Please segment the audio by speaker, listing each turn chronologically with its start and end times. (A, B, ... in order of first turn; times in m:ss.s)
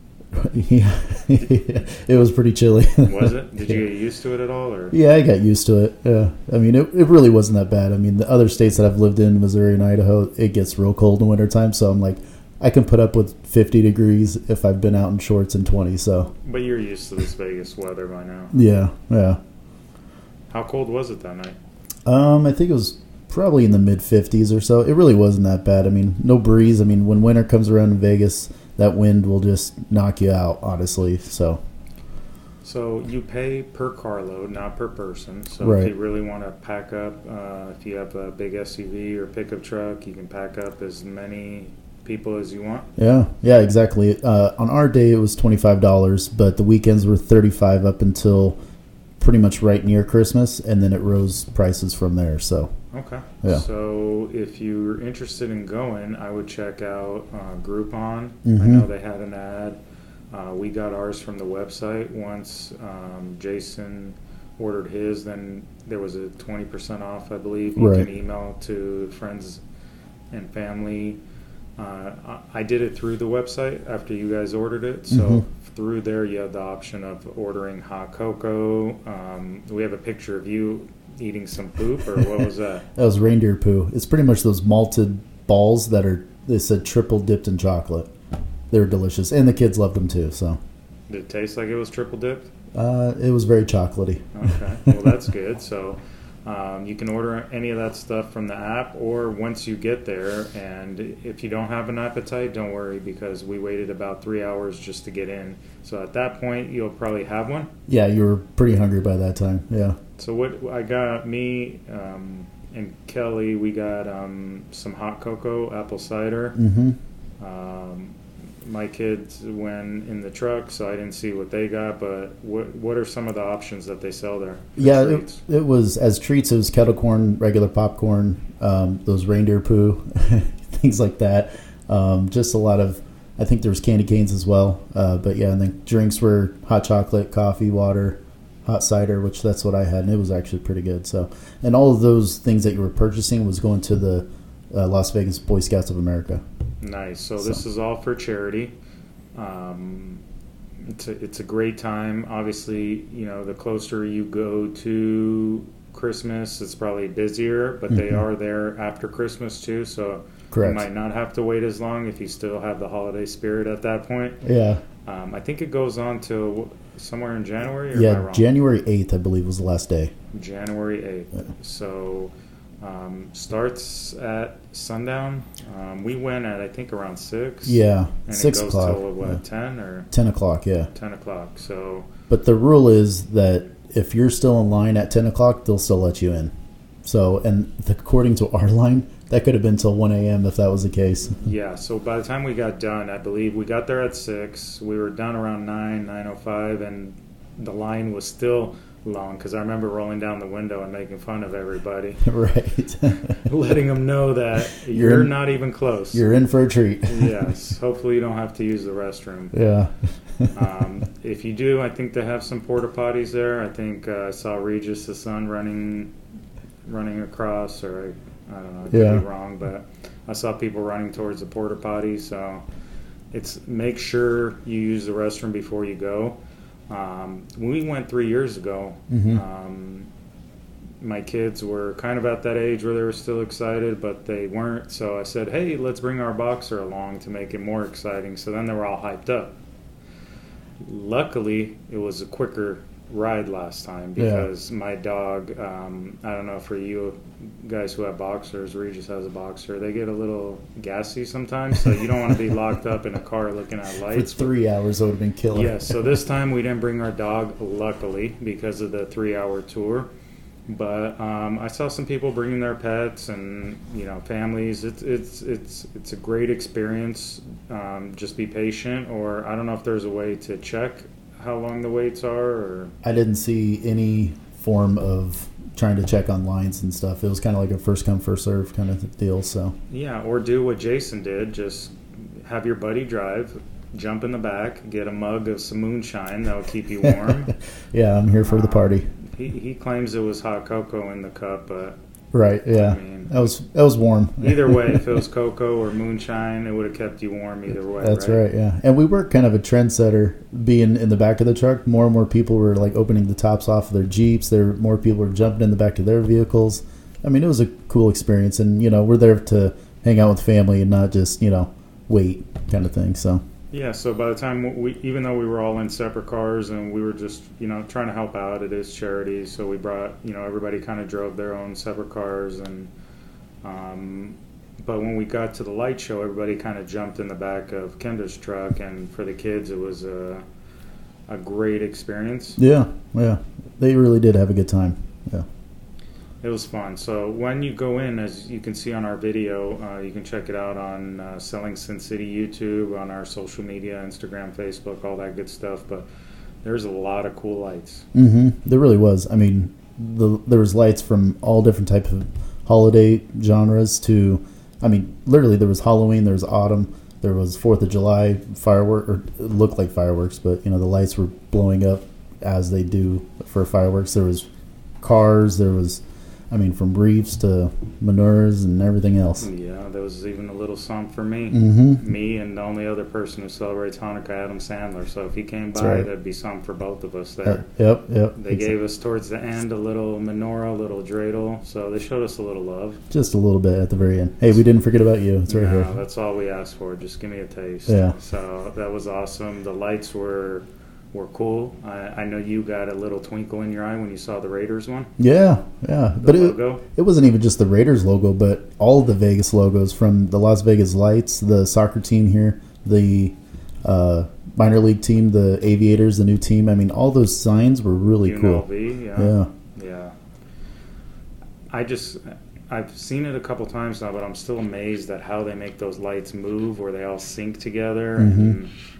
0:00.3-0:03.8 A
0:03.0-0:05.0 B
0:04.9-0:16.3 A
0:16.4-0:18.5 B
0:18.5-0:19.4 A
0:20.5-0:21.6 B
0:22.0-0:31.6 A
0:32.6-0:42.9 B
0:35.6-0:35.9 A
0:43.0-0:48.6 A
0:49.2-0:52.7 A
0:52.9-0:59.8 B
0:58.4-0:58.9 A
1:00.3-1:09.6 B
1:07.8-1:08.1 A
1:10.3-1:11.2 B
1:11.8-1:22.8 B
1:15.1-1:15.4 A
1:23.0-1:28.1 A
1:28.7-1:30.6 A
1:31.1-1:32.5 B
1:32.7-1:35.1 A
1:34.3-1:47.7 B
1:47.9-1:50.0 A
1:50.2-1:56.6 B
1:56.6-1:57.0 A
1:57.4-2:05.4 B
2:04.8-2:26.4 A
2:26.8-2:28.7 B
2:29.3-2:30.2 B
2:30.9-2:44.4 B
2:37.9-2:38.2 A
2:40.5-2:40.9 A
2:44.4-2:44.8 A
2:45.0-2:48.5 B
2:47.9-2:50.1 A
2:50.3-3:00.1 B
2:57.6-2:59.4 A
3:00.1-3:00.9 A
3:00.9-3:02.1 B
3:02.3-3:06.5 A
3:07.0-3:11.4 A
3:11.4-3:22.2 B
3:22.2-3:23.4 A
3:23.4-3:26.2 B
3:24.8-3:25.4 A
3:26.1-3:27.4 A
3:27.1-3:29.5 B
3:29.5-3:30.5 A
3:30.5-3:36.1 B
3:36.8-3:42.6 B
3:38.9-3:39.2 A
3:43.3-3:46.4 B
3:46.9-3:50.1 B
3:49.1-3:49.4 A
3:51.0-3:59.5 B
4:00.8-4:14.5 B
4:04.2-4:04.5 A
4:14.1-4:16.0 A
4:15.5-4:20.1 B
4:20.7-4:32.9 B
4:33.0-4:39.7 A
4:39.9-4:47.5 B
4:47.0-4:49.1 A
4:48.4-4:52.0 B
4:52.3-4:55.0 A
4:52.7-4:53.4 B
4:54.4-4:58.4 B
4:58.0-5:13.4 A
5:13.7-5:22.9 B
5:23.6-5:30.4 B
5:31.3-5:32.6 B
5:32.6-5:35.4 A
5:36.4-5:46.1 B
5:46.6-5:48.0 B
5:48.1-6:04.5 A
6:05.0-6:09.4 A
6:09.4-6:17.7 B
6:11.5-6:12.0 A
6:15.8-6:16.1 A
6:17.4-6:18.7 A
6:18.4-6:23.0 B
6:23.1-6:25.9 A
6:25.5-6:35.1 B
6:27.9-6:28.1 A
6:35.2-6:49.5 A
6:36.2-6:36.8 B
6:48.2-6:50.1 B
6:51.7-6:58.7 B
6:58.2-6:58.6 A